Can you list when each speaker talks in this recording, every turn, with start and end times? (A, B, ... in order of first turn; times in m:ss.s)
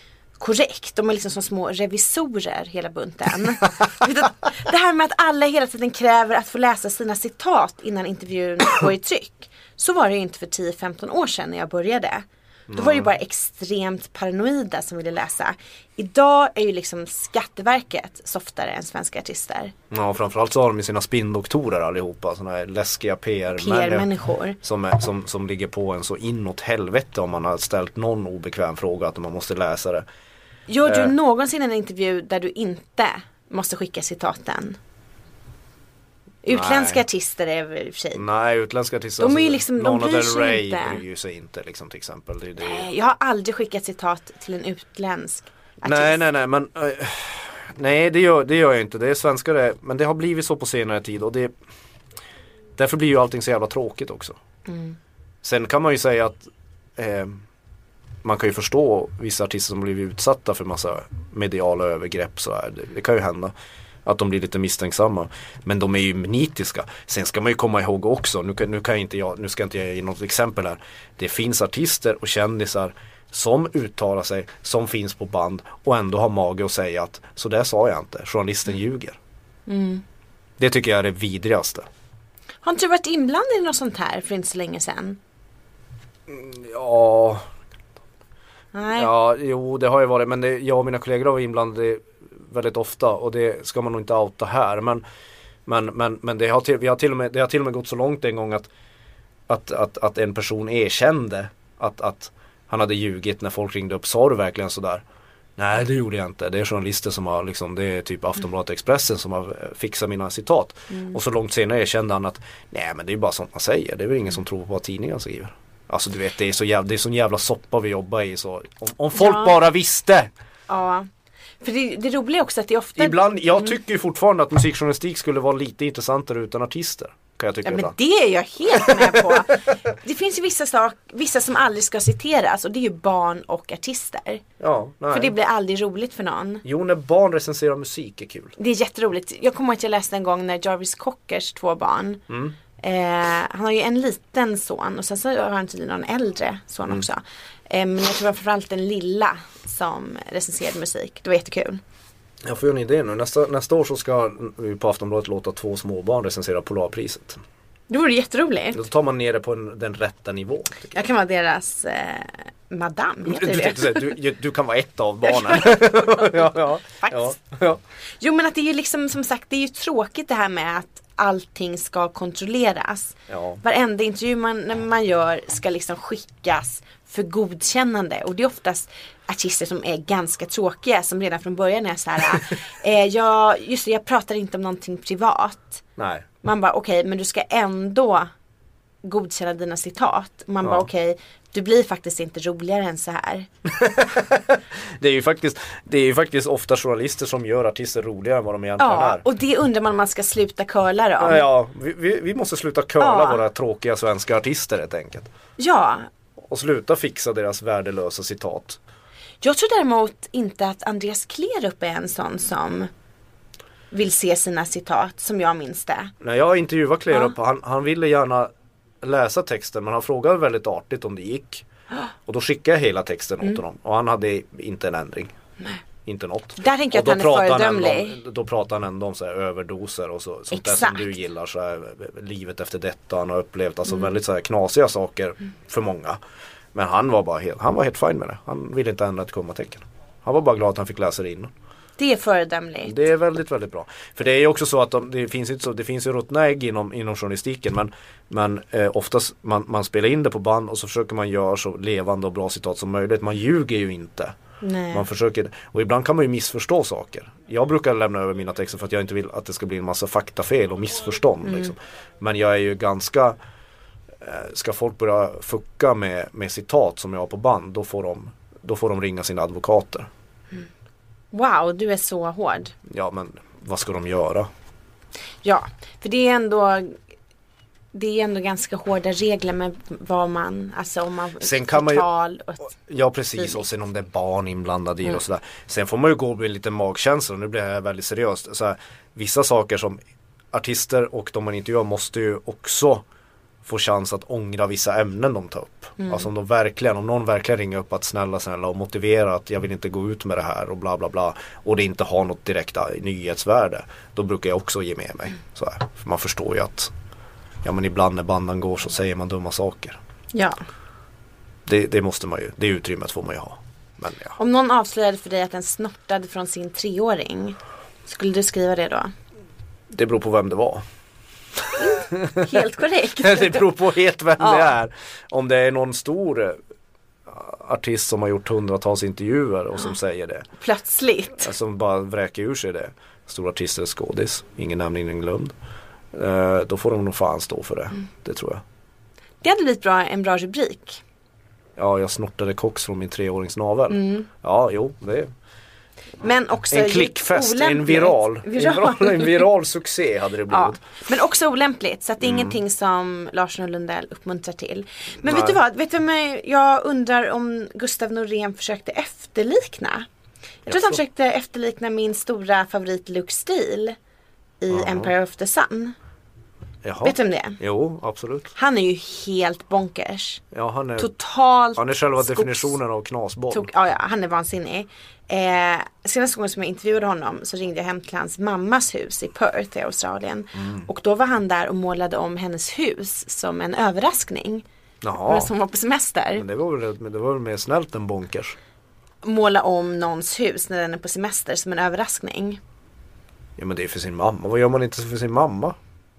0:00.4-0:19.7 A
0:12.7-0:13.1 B
0:19.9-0:24.1 B
0:23.5-0:24.6 A
0:24.6-0:30.0 B
0:30.7-0:34.8 A
0:30.8-0:31.1 B
0:36.4-0:38.2 A
0:36.5-0:37.0 B
0:38.1-0:42.9 B
0:39.2-0:41.0 A
0:42.6-0:46.2 A
0:45.8-0:51.5 B
0:52.8-0:54.4 B
0:54.7-0:55.0 A
0:55.4-0:57.4 B
0:58.2-1:03.5 B
1:04.0-1:19.2 B
1:19.7-1:20.0 A
1:20.6-1:21.8 B
1:22.6-1:25.2 A
1:26.3-1:27.4 B
1:28.7-1:29.1 A
1:28.9-1:35.0 B
1:35.6-1:38.7 B
1:39.5-1:45.0 B
1:45.6-2:00.3 B
1:50.9-1:51.2 A
1:59.1-1:59.5 A
2:00.7-2:01.1 A
2:01.6-2:03.7 A
2:03.0-2:07.9 B
2:07.6-2:14.4 A
2:08.7-2:09.4 B
2:14.6-2:15.3 B
2:15.1-2:16.6 A
2:16.6-2:18.5 B
2:18.6-2:22.2 A
2:22.3-2:22.5 B
2:22.8-2:31.8 A
2:32.4-2:37.4 B
2:37.9-2:38.8 A
2:38.7-2:40.9 B
2:40.9-2:44.1 A
2:43.2-2:47.8 B
2:45.3-2:47.4 A
2:48.2-3:05.8 A
2:53.3-2:53.6 B
3:06.0-3:06.2 B
3:06.4-3:08.3 A
3:09.0-3:13.5 A
3:13.6-3:19.2 B
3:18.8-3:21.4 A
3:21.2-3:25.3 B
3:23.0-3:23.4 A
3:25.6-3:26.1 A
3:26.4-3:28.8 B
3:29.4-3:32.9 A
3:33.9-3:36.1 A
3:36.2-3:38.5 B
3:39.0-3:41.6 B
3:42.2-3:45.3 B
3:46.0-3:56.2 B
3:46.6-3:48.2 A
3:50.5-3:51.2 A
3:56.7-4:01.5 B
4:02.0-4:03.0 A
4:02.8-4:14.3 B
4:14.6-4:15.0 A
4:14.9-4:23.4 B
4:21.5-4:21.7 A
4:24.2-4:30.1 B
4:31.3-4:32.7 A
4:32.8-4:34.5 B
4:35.4-4:37.0 A
4:37.9-4:42.7 A
4:41.4-4:42.0 B
4:42.6-4:50.0 B
4:50.5-4:53.0 B
4:53.6-5:06.9 B
4:56.0-4:56.2 A
5:07.6-5:10.0 B
5:10.3-5:10.6 A
5:11.6-5:14.4 B
5:14.4-5:19.1 A
5:19.9-5:20.8 B
5:21.6-5:22.6 B
5:21.8-5:23.7 A
5:23.2-5:26.6 B
5:24.4-5:24.7 A
5:27.3-5:30.5 B
5:30.6-5:31.5 A
5:31.4-5:35.5 B
5:36.1-5:38.6 B
5:39.4-5:41.0 A
5:41.8-5:45.3 B
5:43.9-5:44.3 A
5:46.2-5:49.4 A
5:46.7-5:50.8 B
5:50.5-6:00.1 A
5:52.2-5:52.6 B
5:55.2-5:55.6 B
6:00.6-6:04.0 A
6:00.6-6:01.0 B
6:04.6-6:05.9 A
6:04.7-6:05.1 B
6:06.8-6:08.5 B
6:07.0-6:07.6 A
6:08.6-6:10.4 A
6:10.5-6:11.1 B
6:11.0-6:12.7 A
6:11.8-6:13.7 B
6:13.5-6:24.6 A
6:20.6-6:20.8 B
6:25.0-6:25.5 B
6:25.2-6:26.4 A
6:26.4-6:28.6 B
6:29.2-6:32.6 A
6:33.6-6:35.8 B